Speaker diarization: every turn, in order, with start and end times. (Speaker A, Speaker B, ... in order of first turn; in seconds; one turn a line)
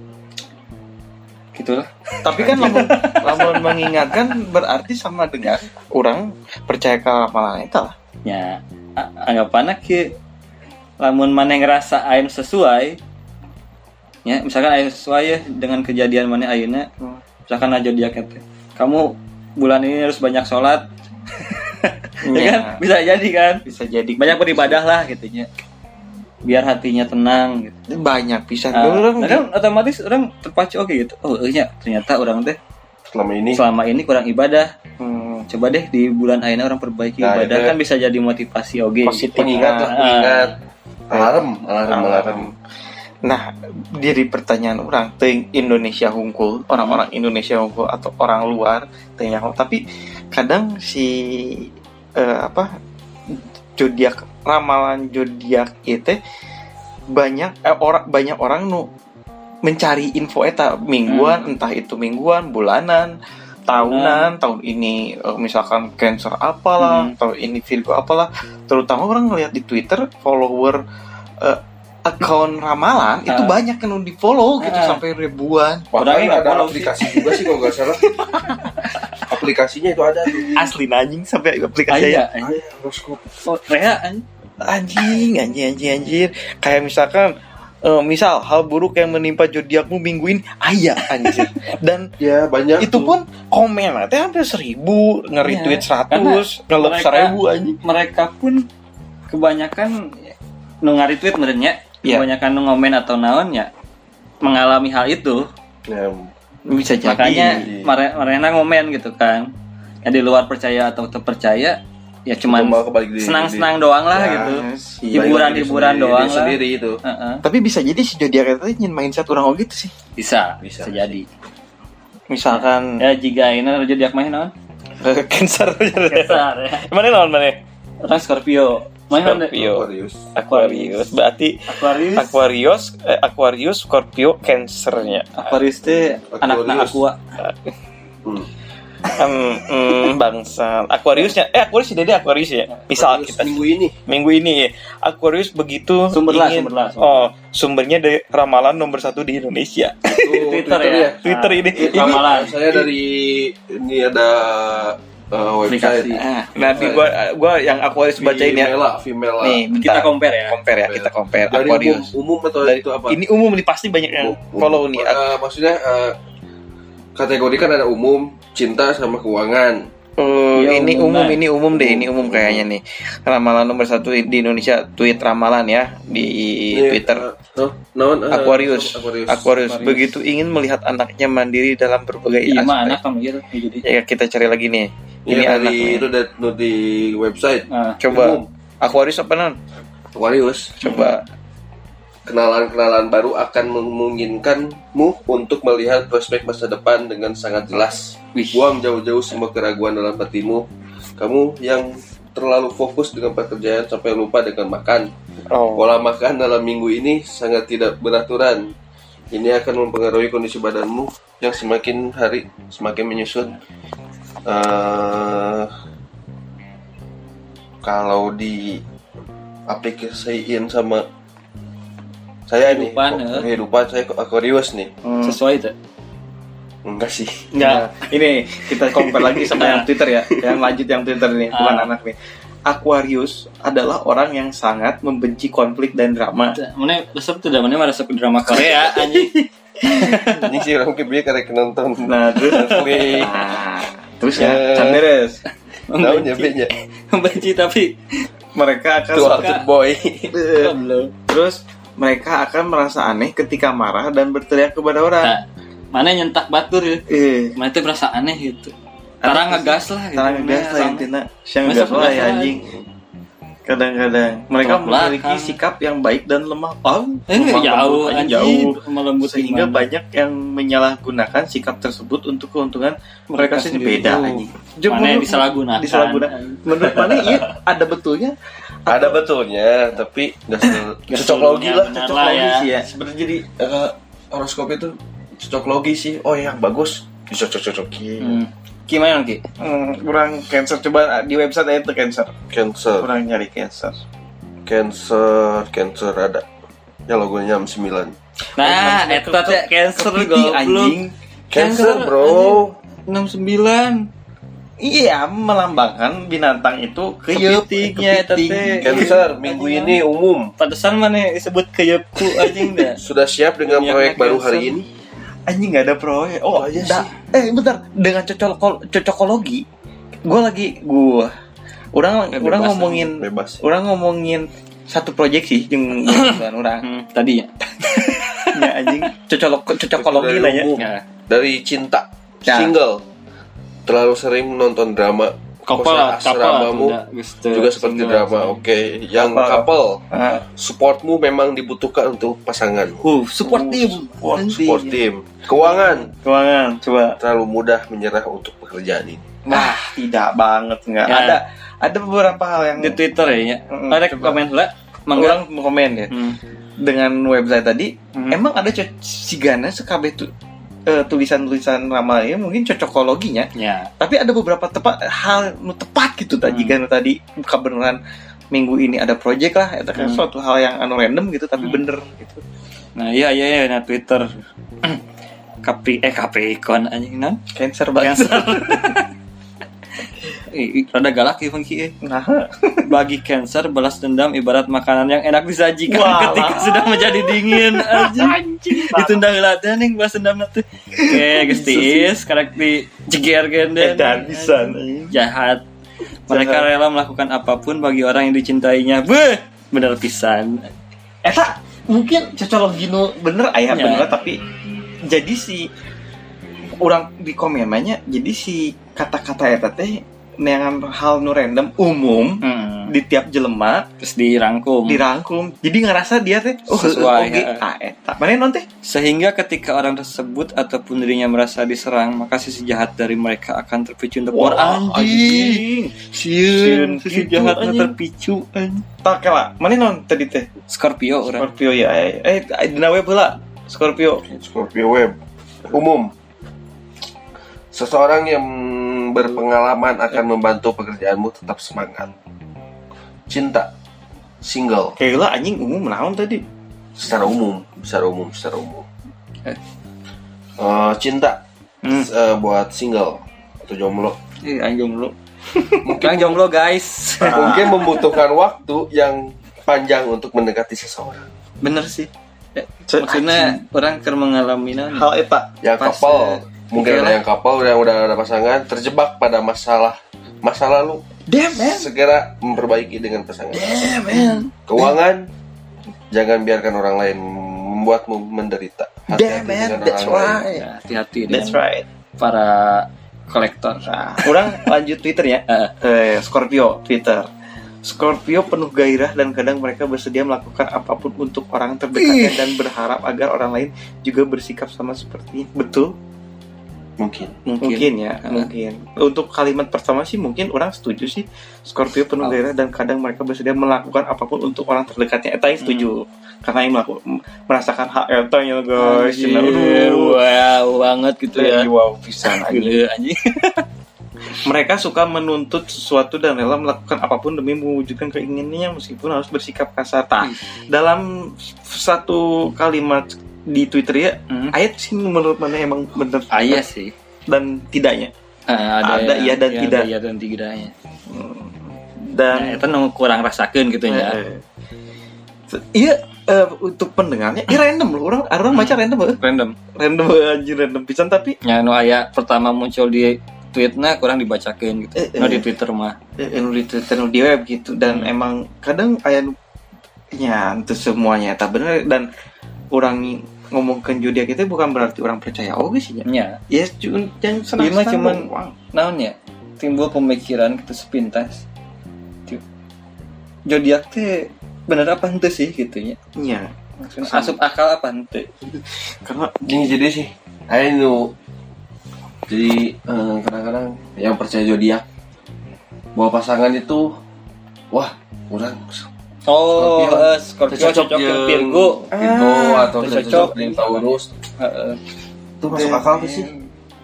Speaker A: 1.6-4.1
Speaker B: 2.2-7.9
Speaker A: 8.2-10.1
Speaker A: 11.0-13.0
Speaker A: 14.2-16.9
Speaker A: 17.5-20.9
Speaker A: 21.4-23.6
Speaker B: 22.2-22.8
Speaker B: 23.7-24.8
Speaker A: 24.2-25.5
Speaker A: 26.4-27.8
Speaker B: 27.9-29.4
Speaker A: 28.7-32.6
Speaker C: 33.1-33.6
Speaker A: 33.5-34.7
Speaker B: 35.0-35.5
Speaker A: 35.5-40.5
Speaker C: 37.2-37.8
Speaker B: 39.1-39.9
Speaker C: 39.2-40.5
Speaker C: 41.1-42.5
Speaker B: 41.1-42.5
Speaker B: 43.2-49.8
Speaker A: 46.8-47.0
Speaker B: 50.3-52.7
Speaker B: 53.3-56.2
Speaker B: 57.1-58.9
Speaker B: 59.6-63.1
Speaker A: 61.1-61.4
Speaker B: 63.7-70.8
Speaker A: 63.8-64.3
Speaker A: 66.8-67.1
Speaker B: 71.4-75.9
Speaker A: 73.3-73.5
Speaker A: 74.6-75.0
Speaker C: 75.9-78.1
Speaker A: 76.0-77.2
Speaker B: 78.2-78.7
Speaker C: 79.3-80.5
Speaker B: 80.5-82.2
Speaker A: 81.9-82.5
Speaker C: 82.4-83.2
Speaker A: 83.4-84.2
Speaker B: 84.6-92.1
Speaker C: 92.2-93.1
Speaker B: 92.8-97.8
Speaker A: 95.4-98.7
Speaker A: 99.3-103.7
Speaker A: 104.4-105.5
Speaker C: 105.9-106.3
Speaker B: 106.7-107.7
Speaker A: 106.8-109.5
Speaker C: 107.6-107.9
Speaker A: 110.0-117.4
Speaker C: 112.4-114.6
Speaker B: 114.3-115.4
Speaker C: 115.1-117.0
Speaker B: 117.4-119.9
Speaker A: 120.2-121.3
Speaker C: 120.6-121.1
Speaker B: 122.3-123.0
Speaker A: 122.5-124.5
Speaker B: 125.0-127.6
Speaker A: 126.1-126.9
Speaker A: 128.0-129.5
Speaker B: 129.1-135.6
Speaker C: 129.5-130.2
Speaker A: 130.5-131.1
Speaker A: 131.7-132.4
Speaker A: 135.3-137.2
Speaker C: 136.3-137.0
Speaker B: 137.4-137.7
Speaker B: 139.1-150.4
Speaker C: 142.9-144.0
Speaker A: 146.1-147.2
Speaker C: 150.1-151.2
Speaker A: 150.3-152.6
Speaker B: 151.2-152.3
Speaker C: 151.8-157.1
Speaker A: 155.7-156.2
Speaker B: 156.2-158.7
Speaker C: 158.2-159.6
Speaker B: 159.4-162.1
Speaker A: 159.7-160.6
Speaker C: 160.8-163.2
Speaker B: 162.6-165.2
Speaker C: 164.2-166.2
Speaker C: 167.2-169.9
Speaker B: 170.2-177.2
Speaker A: 170.5-171.4
Speaker C: 171.7-172.6
Speaker C: 176.7-179.5
Speaker B: 178.3-183.0
Speaker A: 179.6-180.1
Speaker A: 182.4-183.8
Speaker B: 183.8-186.1
Speaker C: 185.3-188.5
Speaker A: 187.7-188.0
Speaker B: 188.0-189.6
Speaker C: 190.2-191.1
Speaker B: 190.8-191.2
Speaker C: 192.3-200.7
Speaker A: 198.3-198.7
Speaker C: 201.2-205.1
Speaker B: 205.5-205.9
Speaker C: 205.7-208.7
Speaker C: 209.3-213.6
Speaker C: 214.5-215.7
Speaker C: 217.8-218.8
Speaker C: 219.7-221.0
Speaker C: 222.5-224.9
Speaker A: 222.6-223.5
Speaker B: 225.0-225.3
Speaker A: 225.2-225.8
Speaker C: 226.8-227.5
Speaker B: 227.5-232.2
Speaker C: 229.4-229.7
Speaker A: 229.6-229.8
Speaker C: 230.3-230.6
Speaker A: 231.5-231.9
Speaker B: 232.7-236.6
Speaker A: 236.5-240.4
Speaker B: 239.8-240.4
Speaker C: 240.3-243.4
Speaker B: 242.0-245.4
Speaker C: 244.3-245.1
Speaker A: 245.9-247.9
Speaker C: 246.0-246.7
Speaker B: 248.5-249.7
Speaker C: 249.1-250.4
Speaker B: 250.3-250.7
Speaker A: 250.6-251.1
Speaker B: 251.3-255.3
Speaker A: 255.2-258.7
Speaker B: 257.1-257.5
Speaker B: 259.2-262.7
Speaker A: 259.2-261.1
Speaker A: 261.6-262.6
Speaker B: 263.6-279.2
Speaker A: 264.6-265.6
Speaker A: 267.3-269.9
Speaker A: 273.3-277.5
Speaker C: 278.9-282.1
Speaker A: 281.1-282.7
Speaker B: 281.9-282.9
Speaker C: 282.9-288.4
Speaker A: 288.2-289.4
Speaker B: 289.6-292.3
Speaker C: 292.5-293.1
Speaker B: 293.0-294.0
Speaker C: 294.6-296.4
Speaker C: 297.1-298.1
Speaker A: 298.6-301.0
Speaker B: 298.6-301.1
Speaker C: 301.5-302.8
Speaker A: 301.5-304.1
Speaker B: 304.8-309.2
Speaker A: 307.3-310.0
Speaker C: 308.8-310.5
Speaker A: 310.6-313.0
Speaker B: 312.2-312.9
Speaker C: 313.0-314.9
Speaker B: 313.7-314.7
Speaker B: 315.5-319.6
Speaker C: 316.5-317.1
Speaker B: 320.2-321.4
Speaker B: 321.9-326.9
Speaker A: 322.4-323.0
Speaker C: 323.0-323.6
Speaker A: 326.1-328.6
Speaker B: 327.8-330.7
Speaker C: 329.8-333.0
Speaker A: 330.8-331.0
Speaker B: 332.4-332.7
Speaker C: 333.9-337.0
Speaker A: 335.7-338.6
Speaker C: 337.5-340.0
Speaker B: 339.1-340.4
Speaker C: 340.6-343.0
Speaker A: 343.0-344.4
Speaker B: 343.1-345.0
Speaker C: 344.2-346.1
Speaker B: 345.5-347.2
Speaker C: 347.2-349.2
Speaker B: 349.4-353.0
Speaker A: 351.1-351.4
Speaker A: 352.8-355.4
Speaker B: 353.7-354.4
Speaker B: 355.1-356.1
Speaker A: 356.1-356.4
Speaker B: 356.8-360.3
Speaker B: 360.9-368.0
Speaker A: 363.6-363.9
Speaker A: 366.4-366.8
Speaker B: 368.5-372.4
Speaker A: 369.9-370.2
Speaker A: 372.9-374.3
Speaker A: 375.6-377.4
Speaker B: 377.5-379.0
Speaker A: 378.0-379.1
Speaker A: 380.5-381.9
Speaker B: 382.0-382.9
Speaker A: 382.9-395.6
Speaker B: 385.9-389.2
Speaker B: 390.9-392.1
Speaker B: 393.8-395.1
Speaker A: 396.3-400.7
Speaker B: 396.3-396.7
Speaker B: 401.2-404.4
Speaker A: 403.7-404.1
Speaker B: 405.1-405.7
Speaker B: 406.8-413.9
Speaker A: 412.4-412.9
Speaker A: 414.0-415.0
Speaker B: 414.9-418.6
Speaker A: 416.7-417.6
Speaker A: 418.8-428.9
Speaker B: 424.3-427.9
Speaker B: 429.0-430.5
Speaker A: 430.7-431.5
Speaker B: 431.3-434.2
Speaker C: 434.3-435.2
Speaker C: 435.7-436.1
Speaker C: 437.7-442.1
Speaker C: 443.3-443.7
Speaker C: 444.4-444.9
Speaker B: 445.0-446.4
Speaker C: 446.9-448.9
Speaker C: 450.6-454.1
Speaker A: 454.4-455.1
Speaker C: 455.8-456.4
Speaker A: 456.0-457.7
Speaker B: 457.2-457.9
Speaker C: 457.3-461.2
Speaker B: 461.6-462.1
Speaker A: 462.5-465.1
Speaker B: 462.9-463.6
Speaker B: 464.9-466.3
Speaker C: 465.6-471.0
Speaker A: 465.8-466.1
Speaker A: 466.8-467.1
Speaker B: 471.3-471.9
Speaker C: 471.6-473.8
Speaker B: 473.5-474.9
Speaker A: 474.1-474.4
Speaker C: 474.6-475.3
Speaker C: 476.1-480.4
Speaker B: 479.1-480.6
Speaker A: 480.5-481.6
Speaker B: 481.3-481.9
Speaker A: 482.2-484.3
Speaker B: 483.9-487.3
Speaker B: 487.8-495.9
Speaker A: 492.0-492.3
Speaker C: 497.0-497.4
Speaker A: 497.5-498.5
Speaker B: 497.5-510.2
Speaker A: 505.6-505.9
Speaker A: 508.8-511.7
Speaker B: 511.4-512.8
Speaker A: 512.2-513.6
Speaker B: 514.4-526.6
Speaker A: 526.3-526.9
Speaker B: 527.3-528.1
Speaker A: 528.5-530.7
Speaker B: 528.8-529.9
Speaker B: 531.1-532.6
Speaker A: 532.3-534.2
Speaker B: 533.9-534.4
Speaker B: 535.5-539.2
Speaker A: 538.5-539.5
Speaker B: 539.8-541.4
Speaker A: 541.4-546.0
Speaker B: 544.9-545.5
Speaker B: 546.2-549.4
Speaker A: 547.9-548.1
Speaker B: 550.1-552.1
Speaker B: 552.7-558.5
Speaker A: 556.0-556.4
Speaker A: 557.6-561.4
Speaker A: 563.5-566.0
Speaker B: 566.1-567.4
Speaker A: 567.0-568.3
Speaker B: 568.8-569.7
Speaker C: 569.5-571.1
Speaker C: 572.3-574.8
Speaker C: 575.9-577.0
Speaker C: 577.7-578.9
Speaker A: 579.3-581.9
Speaker C: 579.5-584.1
Speaker B: 581.9-582.8
Speaker A: 582.8-583.9
Speaker A: 584.4-584.8
Speaker C: 585.4-586.3
Speaker B: 585.5-586.4